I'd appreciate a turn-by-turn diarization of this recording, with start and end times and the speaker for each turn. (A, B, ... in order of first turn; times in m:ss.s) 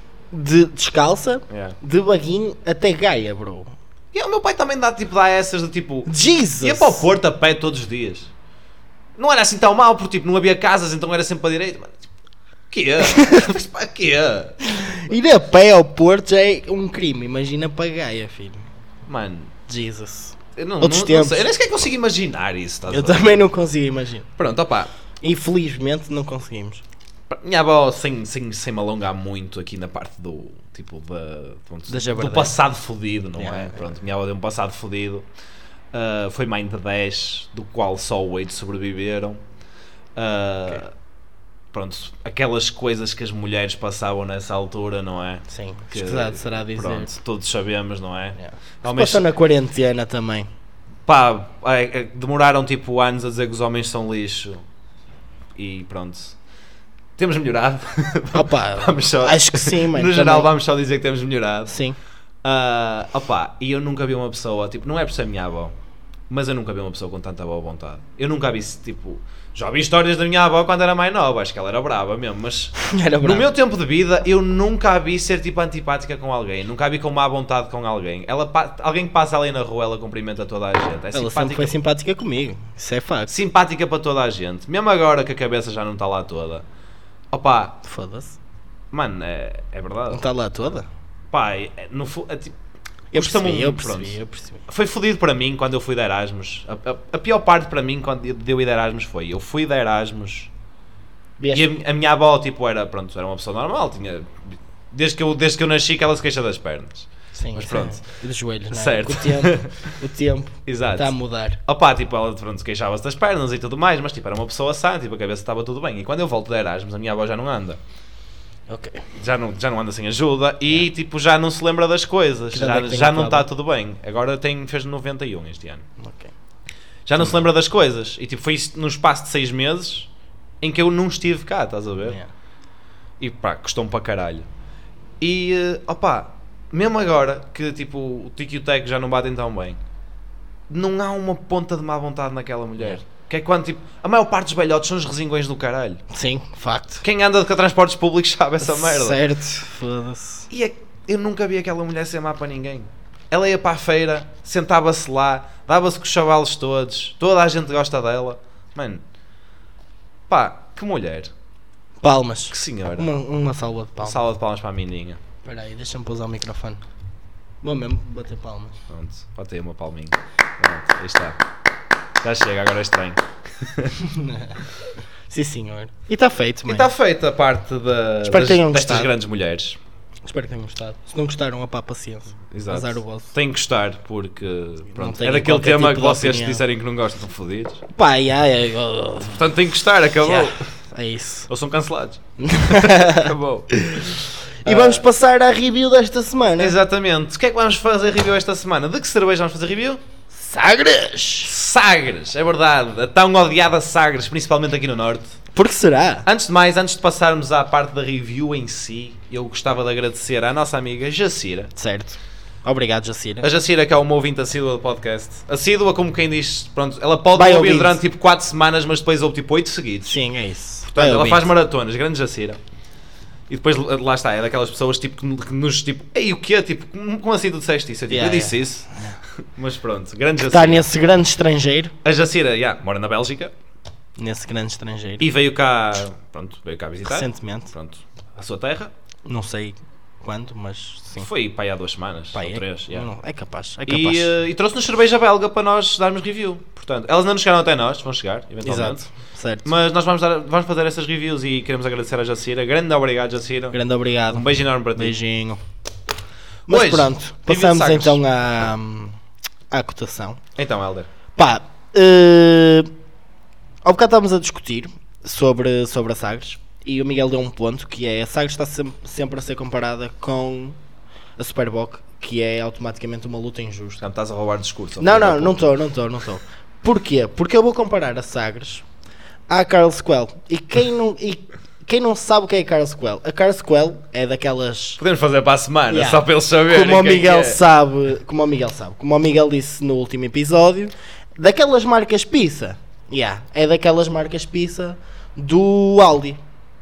0:00.3-0:03.7 A
0:01.5-0:01.8 B
0:04.1-0:08.3 B
0:06.0-0:07.1 A
0:09.2-0:12.0 B
0:12.7-0:14.6 B
0:13.0-0:13.5 A
0:14.6-0:18.7 A
0:19.1-0:19.5 B
0:19.7-0:21.5 A
0:20.6-0:23.4 B
0:22.9-0:24.3 A
0:24.4-0:24.9 B
0:25.2-0:26.8 A
0:27.3-0:35.2 B
0:31.9-0:32.6 A
0:33.4-0:33.8 A
0:35.9-0:39.4 B
0:40.2-0:40.9 B
0:41.7-0:49.2 B
0:45.5-0:47.1 A
0:48.4-0:50.5 A
0:51.1-0:54.6 B
0:55.6-0:56.4 B
0:57.2-1:01.8 B
0:58.3-1:00.5 A
1:01.7-1:02.0 A
1:02.4-1:05.7 B
1:06.3-1:21.7 B
1:12.8-1:13.5 A
1:21.1-1:23.3 A
1:23.3-1:26.6 B
1:27.3-1:27.8 B
1:27.8-1:28.4 A
1:28.9-1:30.2 B
1:30.1-1:30.9 A
1:31.3-1:32.5 B
1:33.1-1:34.6 A
1:33.1-1:34.2 B
1:34.7-1:40.5 B
1:41.4-1:41.7 A
1:41.5-1:48.0 B
1:47.3-1:51.6 A
1:48.7-1:49.9 B
1:50.7-1:51.1 B
1:51.6-1:57.8 B
1:58.7-1:59.0 A
1:59.2-2:05.8 B
2:02.5-2:03.5 A
2:06.0-2:06.3 A
2:07.0-2:10.1 B
2:10.6-2:12.2 B
2:13.2-2:14.4 B
2:15.2-2:19.8 B
2:20.7-2:26.0 B
2:26.1-2:27.0 A
2:27.0-2:29.2 B
2:28.6-2:30.5 A
2:30.5-2:39.0 B
2:40.3-2:41.3 B
2:42.0-2:44.2 A
2:42.5-2:43.1 B
2:44.0-2:45.2 B
2:45.4-2:46.8 A
2:47.6-2:48.8 A
2:48.9-2:51.4 B
2:52.2-2:54.0 B
2:54.0-2:54.6 A
2:55.3-2:56.9 A
2:56.6-2:59.8 B
2:58.2-2:59.1 A
3:00.2-3:03.3 A
3:02.5-3:07.8 B
3:04.9-3:06.6 A
3:07.9-3:09.4 A
3:09.2-3:10.6 B
3:10.2-3:11.5 A
3:11.5-3:13.7 B
3:12.4-3:16.8 A
3:14.6-3:15.0 B
3:16.6-3:20.0 B
3:20.3-3:21.5 A
3:21.4-3:25.4 B
3:25.5-3:26.2 A
3:26.2-3:31.7 B
3:31.8-3:33.5 A
3:33.4-3:40.2 B
3:37.3-3:38.0 A
3:40.0-3:41.5 A
3:40.9-3:42.6 B
3:43.5-3:48.9 B
3:48.1-3:49.2 A
3:49.5-3:50.8 B
3:50.5-3:51.9 A
3:52.0-3:53.5 B
3:54.2-3:55.3 A
3:55.2-3:58.9 B
3:57.0-3:57.7 A
3:59.2-4:01.3 A
4:01.2-4:03.1 B
4:02.3-4:04.3 A
4:03.8-4:09.1 B
4:08.6-4:09.7 A
4:09.6-4:13.8 B
4:13.7-4:15.6 A
4:14.3-4:15.1 B
4:16.7-4:19.2 A
4:16.7-4:18.2 B
4:19.7-4:20.4 A
4:20.6-4:21.1 B
4:21.4-4:22.9 A
4:23.8-4:30.8 A
4:31.4-4:34.0 A
4:34.0-4:35.7 B
4:35.0-4:38.8 A
4:39.5-4:45.0 A
4:45.0-4:47.6 B
4:45.9-4:56.4 A